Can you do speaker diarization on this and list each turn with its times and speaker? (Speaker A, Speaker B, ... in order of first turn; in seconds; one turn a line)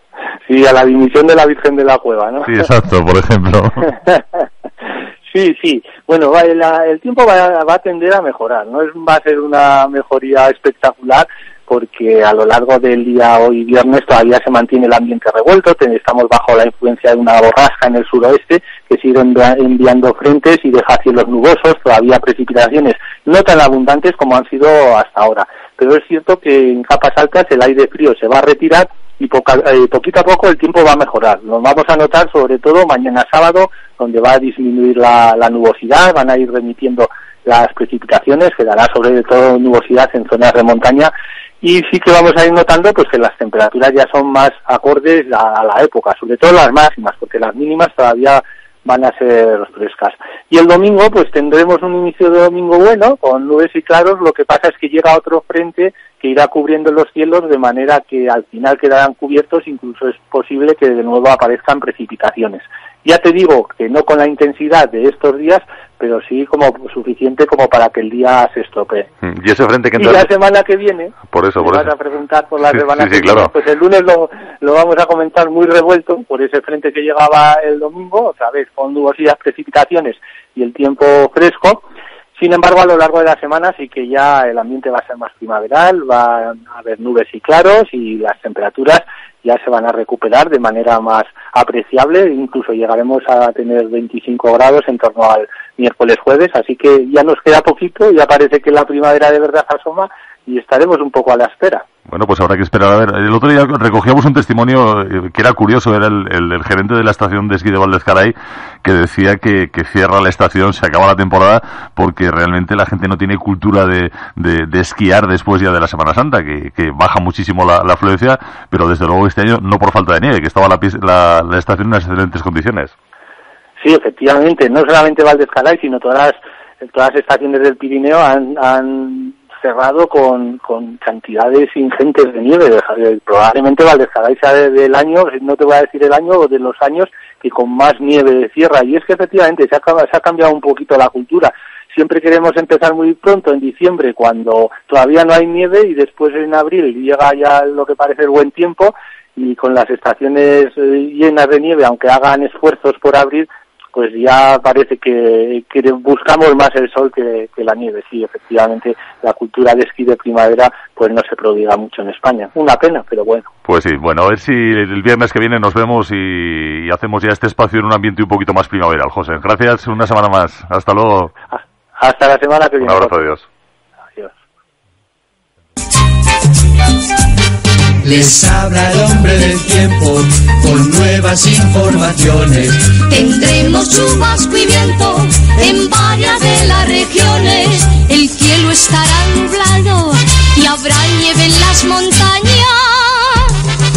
Speaker A: 0.5-2.5
Speaker B: 2.5-3.9
Speaker A: 5.3-69.1
Speaker B: 69.2-70.3
Speaker A: 70.0-81.8
Speaker B: 71.3-71.9
Speaker B: 72.7-73.5
Speaker A: 82.4-101.8
Speaker B: 102.1-122.9
Speaker A: 123.8-163.5
Speaker B: 163.7-171.3
Speaker A: 172.0-173.3
Speaker B: 172.8-173.4
Speaker C: 178.0-182.9
Speaker D: 183.0-193.6